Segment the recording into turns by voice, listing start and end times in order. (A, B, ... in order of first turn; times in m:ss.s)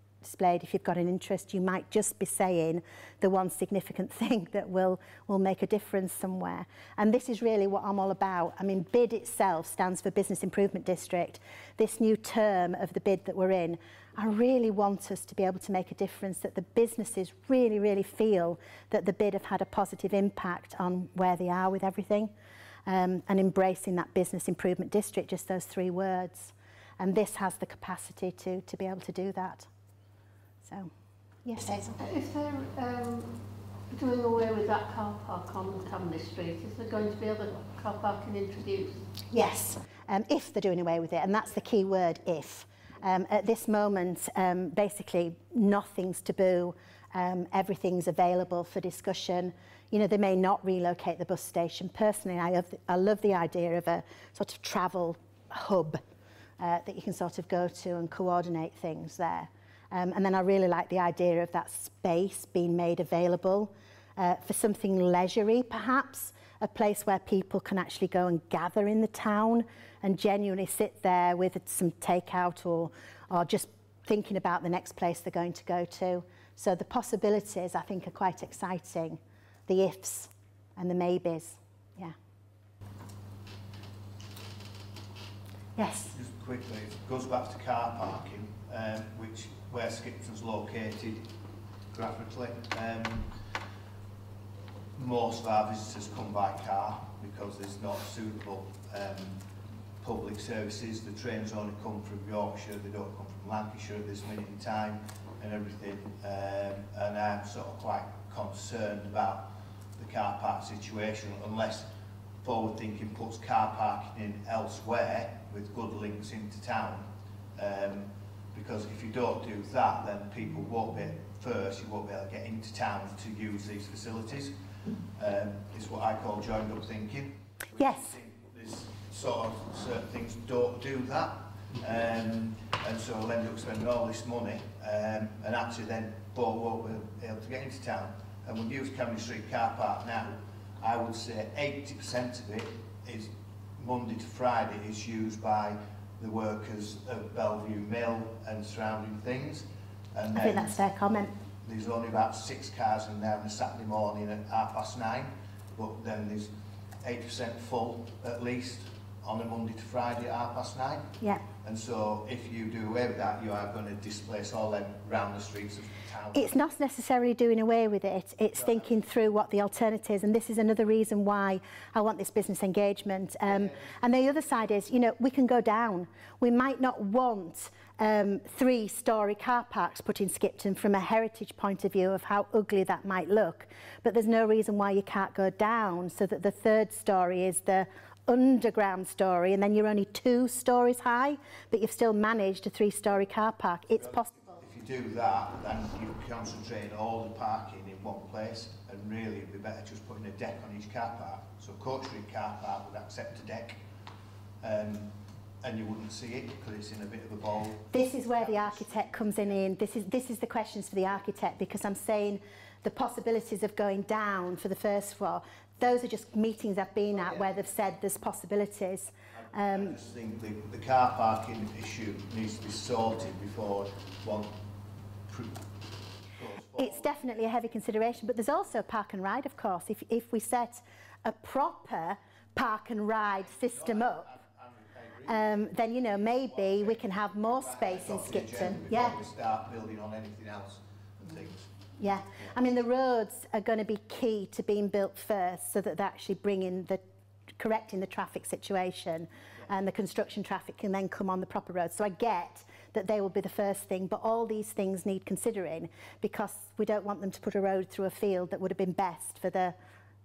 0:00.2-0:22.3 A
0:22.9-0:29.7 A
0:30.6-0:30.9 A
0:31.4-0:32.0 A
0:31.8-0:39.0 B
0:39.3-0:56.0 A
0:56.6-1:22.1 A
1:25.8-1:26.1 A
1:26.1-1:31.3 C
1:31.9-1:33.3 C
1:35.0-1:39.4 C
1:40.0-1:51.9 C
1:52.4-2:04.6 C
2:05.1-2:30.8 C
2:07.8-2:08.2 A
2:30.3-2:31.3 A
2:31.6-2:46.6 C
2:46.3-3:14.6 A
2:48.5-2:48.9 C
2:53.5-2:53.9 C
3:14.0-3:23.8 C
3:24.6-3:29.7 C
3:27.9-3:40.0 A
3:37.1-3:37.6 C
3:39.3-3:44.6 C
3:45.3-3:47.1 C
3:46.8-3:54.3 A
3:53.3-4:01.7 C
3:55.3-3:59.2 A
4:02.0-4:07.0 A
4:07.6-4:19.8 A